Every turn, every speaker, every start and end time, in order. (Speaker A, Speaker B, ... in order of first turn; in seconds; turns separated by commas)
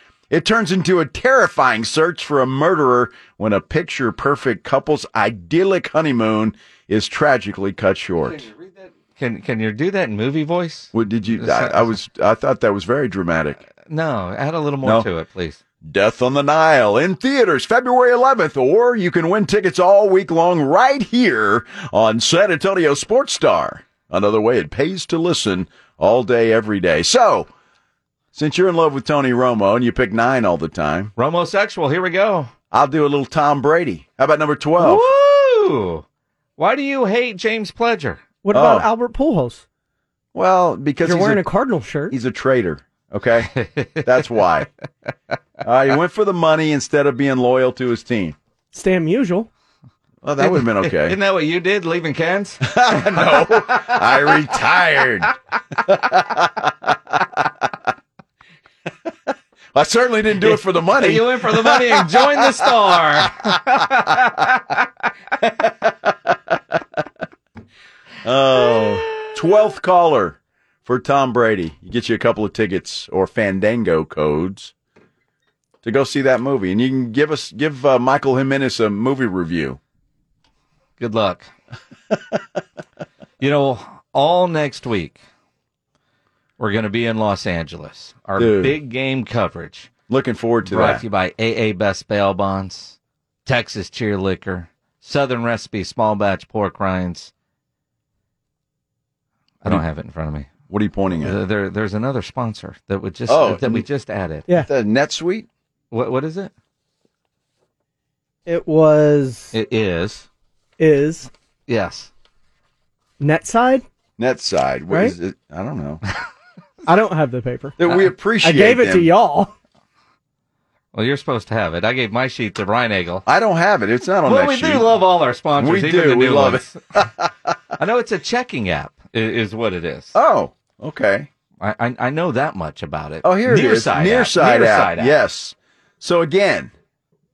Speaker A: 0.3-8.5, Speaker B: 8.2-11.9, Speaker A: 10.9-13.6, Speaker B: 13.9-15.6, Speaker A: 15.8-27.5, Speaker A: 28.3-31.1, Speaker B: 31.2-32.5, Speaker A: 32.7-35.1, Speaker B: 34.8-36.0, Speaker B: 36.6-38.2, Speaker C: 38.4-39.6, Speaker A: 38.5-38.9, Speaker A: 40.4-41.4, Speaker C: 41.0-42.1, Speaker A: 42.1-44.7, Speaker B: 43.6-44.2, Speaker A: 45.6-48.4, Speaker C: 48.7-49.5, Speaker A: 50.2-51.2, Speaker B: 50.4-53.9, Speaker A: 52.6-55.3, Speaker A: 55.9-57.5, Speaker A: 59.7-63.9, Speaker B: 60.4-64.8, Speaker A: 66.1-66.5, Speaker A: 68.2-74.7, Speaker B: 68.7-69.3, Speaker A: 75.8-79.8, Speaker B: 81.0-81.5, Speaker B: 83.4-85.2, Speaker B: 86.6-89.9, Speaker A: 88.4-88.8, Speaker A: 90.1-91.0, Speaker B: 90.7-97.3, Speaker B: 99.6-100.5, Speaker A: 100.7-101.4, Speaker B: 101.2-104.5, Speaker A: 103.3-103.9, Speaker A: 104.6-105.5, Speaker B: 105.9-106.5, Speaker C: 108.5-109.5, Speaker B: 109.5-110.3, Speaker C: 110.8-111.3, Speaker B: 111.7-112.1, Speaker C: 113.2-113.8, Speaker A: 114.2-116.0, Speaker C: 116.9-117.8, Speaker A: 117.8-119.1, Speaker C: 118.4-119.5, Speaker B: 120.9-123.2, Speaker A: 123.3-125.0, Speaker B: 124.3-127.1, Speaker A: 125.6-127.6, Speaker B: 127.8-130.2, Speaker A: 130.2-131.3, Speaker B: 131.6-135.2, Speaker A: 133.2-136.7